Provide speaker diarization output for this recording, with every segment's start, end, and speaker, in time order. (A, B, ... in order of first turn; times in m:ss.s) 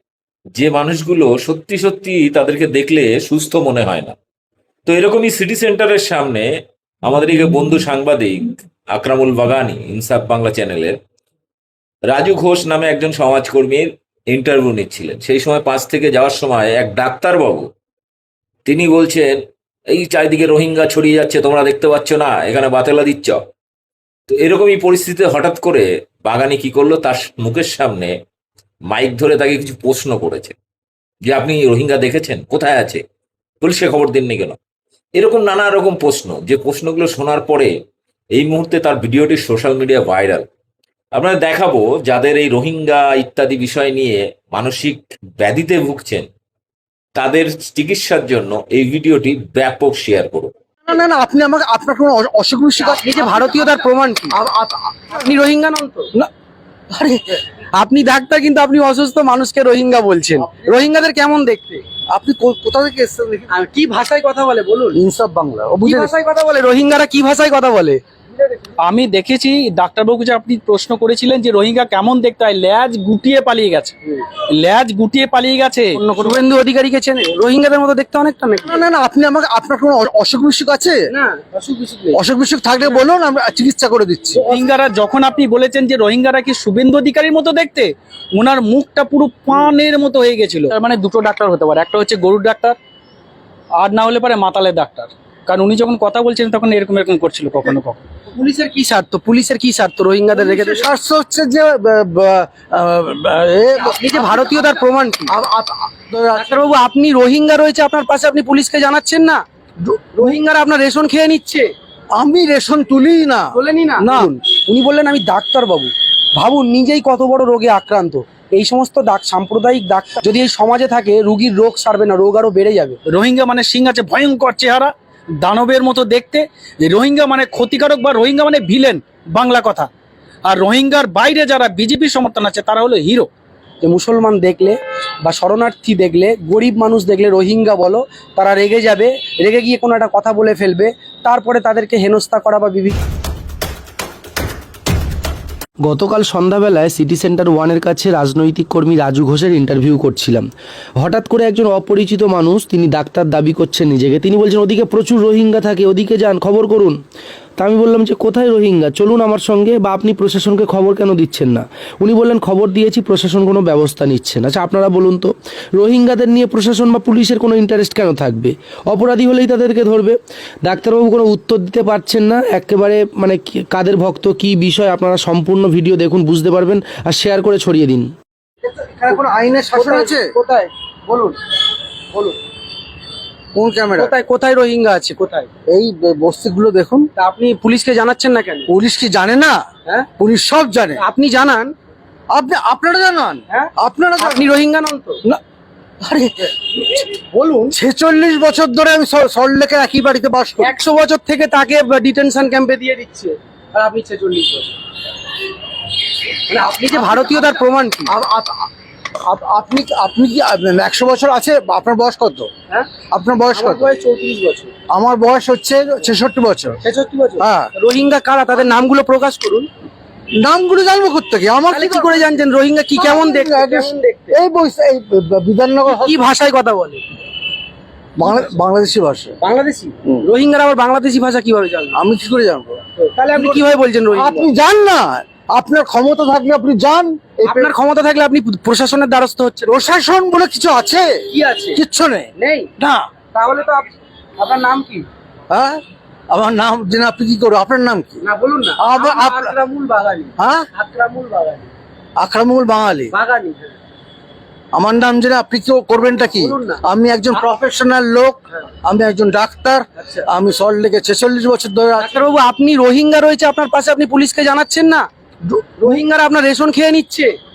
0:00.6-0:04.1 A
0:04.8-0:06.5 A
0:07.0-0:11.0 A
0:12.1-0:17.7 A
0:18.6-0:23.4 A
0:24.3-0:28.1 A
0:28.9-0:30.6 A
0:31.2-0:33.0 A
0:33.6-0:34.6 A
0:35.2-0:37.7 A
0:38.3-0:40.4 A
0:41.1-0:46.3 A
0:47.2-0:50.5 A
0:50.8-0:53.8 B
0:52.9-0:54.4 C
0:54.3-0:55.1 B
0:55.1-0:56.1 C
0:56.9-0:57.4 B
0:57.8-1:01.8 C
1:00.4-1:00.8 B
1:02.1-1:03.5 B
1:03.5-1:05.0 C
1:04.9-1:06.1 B
1:05.8-1:08.0 C
1:08.8-1:13.9 D
1:14.5-1:16.0 D
1:15.9-1:18.9 C
1:18.6-1:21.0 B
1:21.1-1:22.2 C
1:22.1-1:24.4 B
1:24.4-1:24.6 C
1:24.5-1:32.8 D
1:33.8-1:38.0 D
1:38.3-1:40.9 C
1:40.3-1:46.7 B
1:43.8-1:45.3 C
1:46.4-1:51.7 C
1:52.1-1:54.3 B
1:53.5-2:03.0 C
2:03.1-2:09.9 D
2:10.4-2:13.3 D
2:13.8-2:23.0 C
2:25.8-2:30.5 E
2:31.0-2:37.0 E
2:37.6-2:58.1 E
2:58.8-3:00.3 B
2:59.1-3:01.4 C
3:03.5-3:04.1 B
3:04.0-3:05.5 C
3:05.7-3:07.1 B
3:07.2-3:08.7 C
3:08.7-3:09.6 B
3:10.2-3:11.0 B
3:11.0-3:11.7 C
3:12.3-3:14.5 B
3:13.5-3:15.2 C
3:16.0-3:17.0 B
3:17.1-3:17.7 C
3:17.7-3:20.7 B
3:20.6-3:24.7 C
3:26.5-3:28.1 C
3:27.0-3:27.5 B
3:28.1-3:28.7 B
3:29.3-3:32.5 B
3:33.1-3:34.0 B
3:33.5-3:34.7 C
3:34.9-3:36.8 B
3:36.8-3:39.7 C
3:37.4-3:37.7 B
3:40.4-3:42.3 B
3:41.7-3:44.4 C
3:42.9-3:46.2 B
3:45.9-3:47.0 C
3:48.2-3:49.4 B
3:49.4-3:52.0 C
3:51.9-3:52.8 B
3:53.0-3:54.5 C
3:53.4-3:53.6 B
3:54.1-3:57.7 B
3:57.4-3:59.8 C
3:59.7-4:01.2 B
4:01.3-4:01.8 C
4:01.7-4:03.1 B
4:02.4-4:02.7 C
4:03.3-4:03.9 C
4:04.4-4:05.1 C
4:05.5-4:08.2 B
4:08.2-4:11.7 C
4:08.8-4:09.5 B
4:10.4-4:10.7 B
4:12.2-4:13.1 B
4:13.1-4:13.8 C
4:14.7-4:22.2 B
4:16.3-4:17.4 C
4:20.0-4:20.2 C
4:22.0-4:25.1 C
4:25.6-4:27.3 C